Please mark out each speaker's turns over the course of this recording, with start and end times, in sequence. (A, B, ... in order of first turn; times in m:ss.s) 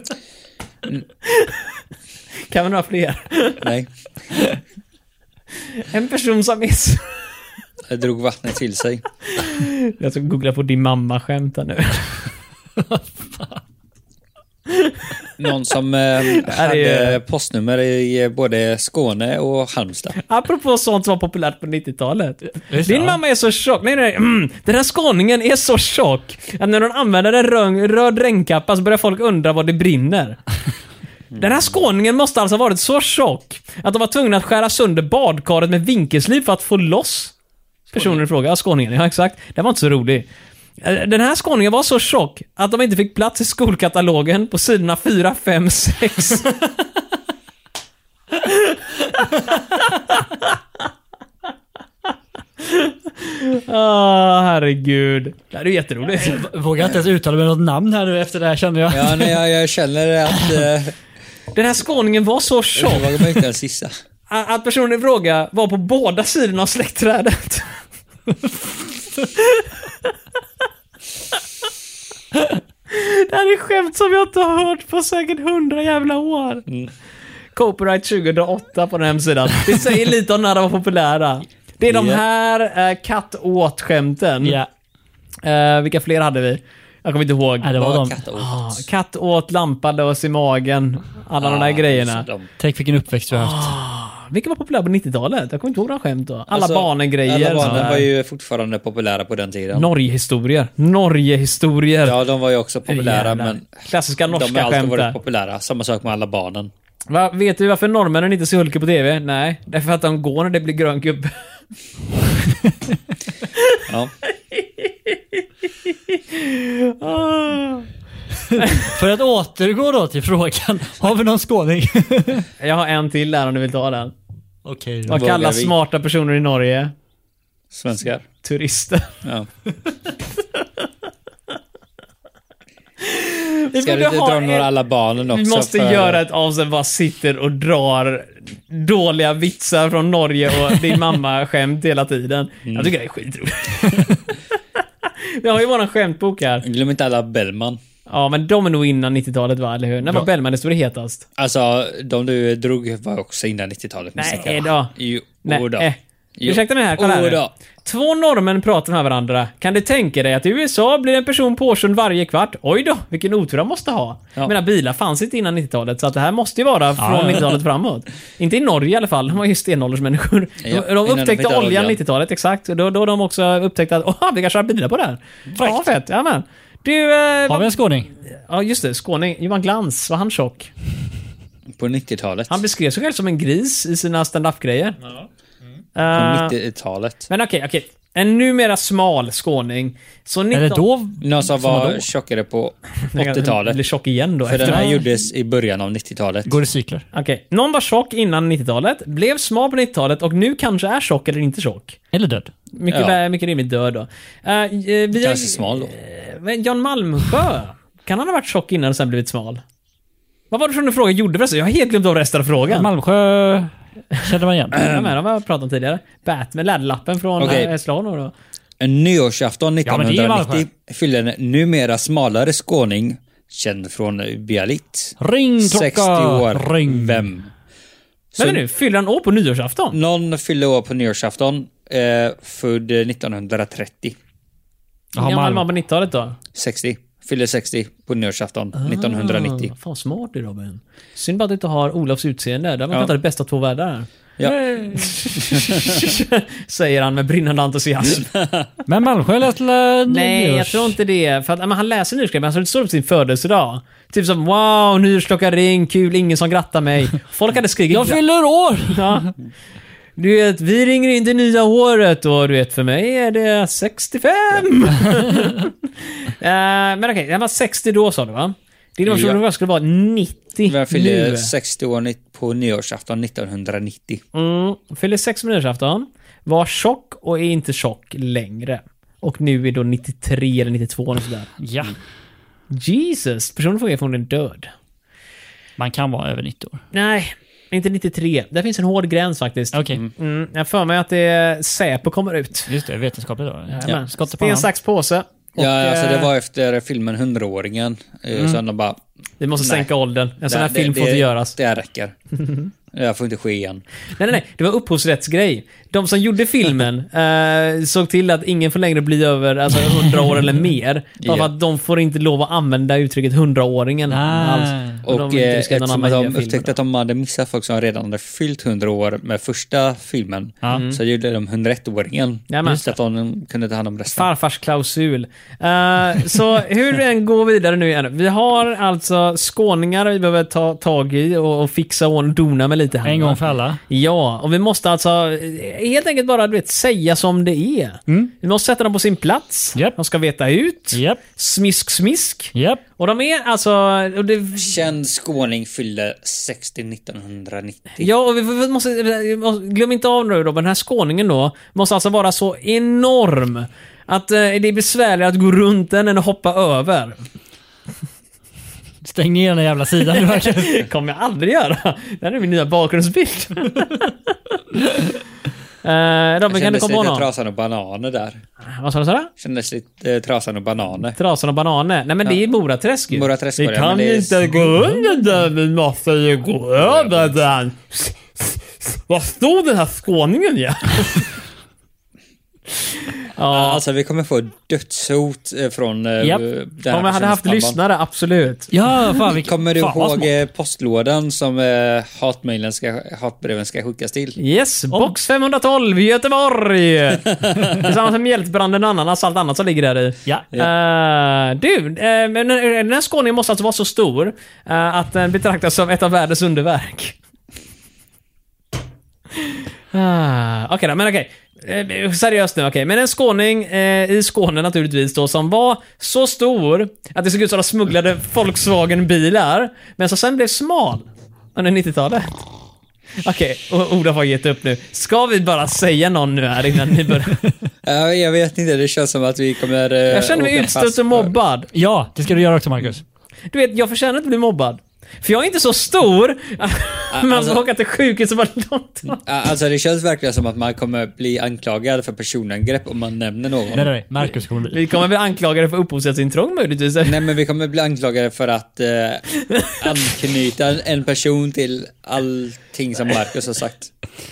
0:01.2-0:01.7 A
0:02.5-0:03.6 A
0:03.6-0:03.9 B
0:05.7-0:07.2 A
0:07.9-0:09.0 B
0:09.3-0:12.3 A
0:14.7-0:15.2 A
0:15.4-0:20.2 B
0:16.2-0:17.2 A
0:20.2-0:30.4 A
0:22.7-0:23.2 C
0:31.3-0:31.7 B
0:31.4-0:37.3 A
0:37.9-0:40.3 A
0:40.8-0:46.5 A
0:48.4-0:49.2 A
0:49.8-0:50.6 A
0:52.6-0:56.4 A
0:56.2-0:59.4 C
0:58.9-1:00.9 B
1:01.5-1:03.3 A
1:02.7-1:03.9 B
1:04.3-1:07.8 A
1:09.2-1:10.1 A
1:12.3-1:16.6 A
1:17.5-1:24.6 A
1:21.8-1:22.2 B
1:25.4-1:27.7 A
1:27.6-1:28.2 C
1:27.7-1:28.8 B
1:28.3-1:32.2 A
1:31.4-1:32.5 B
1:32.6-1:33.8 C
1:33.3-1:38.1 A
1:36.5-1:39.9 B
1:39.7-1:42.1 A
1:42.0-1:46.7 B
1:42.9-1:45.1 A
1:47.1-1:51.4 A
1:53.5-1:53.8 A
1:53.9-1:54.1 B
1:54.5-1:57.9 A
1:58.5-1:58.9 A
1:58.6-2:02.5 C
2:02.6-2:04.1 A
2:04.6-2:05.2 C
2:05.1-2:05.7 B
2:05.1-2:06.9 A
2:07.7-2:08.2 B
2:08.4-2:09.2 A
2:13.0-2:14.7 A
2:13.8-2:16.2 B
2:15.2-2:24.3 A
2:22.6-2:22.9 B
2:25.0-2:26.6 A
2:26.6-2:27.8 B
2:28.1-2:31.2 A
2:31.4-2:37.5 B
2:34.2-2:34.9 A
2:35.4-3:00.7 A
2:47.0-2:47.5 C
2:50.6-2:52.0 B
2:55.6-2:55.9 C
2:57.5-2:58.1 C
3:01.7-3:02.6 B
3:02.5-3:05.1 A
3:05.9-3:06.6 A
3:06.1-3:07.3 B
3:07.3-3:10.8 A
3:10.5-3:12.0 C
3:11.2-3:13.8 B
3:13.1-3:15.0 A
3:14.4-3:16.6 B
3:14.6-3:15.0 C
3:16.5-3:17.0 C
3:17.1-3:22.0 A
3:22.1-3:22.5 C
3:22.7-3:29.6 A
3:22.9-3:23.2 B
3:25.1-3:25.9 B
3:30.5-3:32.9 A
3:32.7-3:34.8 C
3:34.7-3:38.3 A
3:34.8-3:35.1 B
3:37.4-3:37.7 B
3:38.8-3:47.5 B
3:39.8-3:40.6 C
3:45.2-3:47.3 C
3:48.4-3:50.0 A
3:49.9-3:54.2 B
3:55.2-3:55.6 C
3:55.2-3:56.4 A
3:56.5-3:59.7 B
3:58.7-4:08.2 A
4:04.4-4:06.1 B
4:08.1-4:08.7 B
4:08.9-4:10.9 C
4:10.1-4:18.2 A
4:17.9-4:19.2 C
4:18.9-4:19.3 A
4:20.2-4:31.5 A
4:29.0-4:29.4 B
4:30.7-4:34.2 B
4:34.3-4:41.5 A
4:41.6-4:42.0 C
4:42.7-4:44.7 A
4:45.8-4:46.8 C
4:46.9-4:52.7 A
4:49.7-4:50.0 C
4:52.7-4:54.7 C
4:53.7-4:56.3 A
4:55.6-4:59.0 B
4:59.4-5:01.5 A
4:59.6-4:59.9 B
5:00.4-5:02.2 B
5:02.9-5:03.8 B
5:04.2-5:16.7 A
5:11.2-5:11.5 B
5:14.1-5:15.0 C
5:15.0-5:24.3 B
5:20.7-5:21.0 A
5:22.5-5:22.8 A
5:24.1-5:44.7 A
5:33.0-5:33.8 C
5:40.9-5:41.2 C
5:42.5-5:42.8 C
5:44.5-5:48.1 B
5:48.0-5:57.2 A
5:59.0-6:00.9 C
6:00.1-6:04.1 A
6:04.9-6:05.1 A
6:05.8-6:07.2 A
6:06.5-6:08.4 B
6:08.6-6:09.3 A
6:09.4-6:11.2 B
6:11.2-6:21.3 A
6:13.1-6:14.9 B
6:16.8-6:17.4 B
6:22.7-6:23.8 A
6:23.5-6:27.8 B
6:26.9-6:28.7 A
6:28.7-6:30.3 C
6:29.3-6:34.4 B
6:34.4-6:47.2 A
6:37.3-6:37.8 B
6:49.4-7:02.4 A
7:03.2-7:07.4 A
7:07.8-7:11.3 B
7:10.1-7:11.7 A
7:11.7-7:13.0 C
7:13.5-7:19.2 A
7:17.1-7:17.6 B
7:19.1-7:23.9 B
7:23.7-7:24.9 C
7:24.7-7:27.2 A
7:27.0-7:33.9 B
7:29.5-7:29.8 A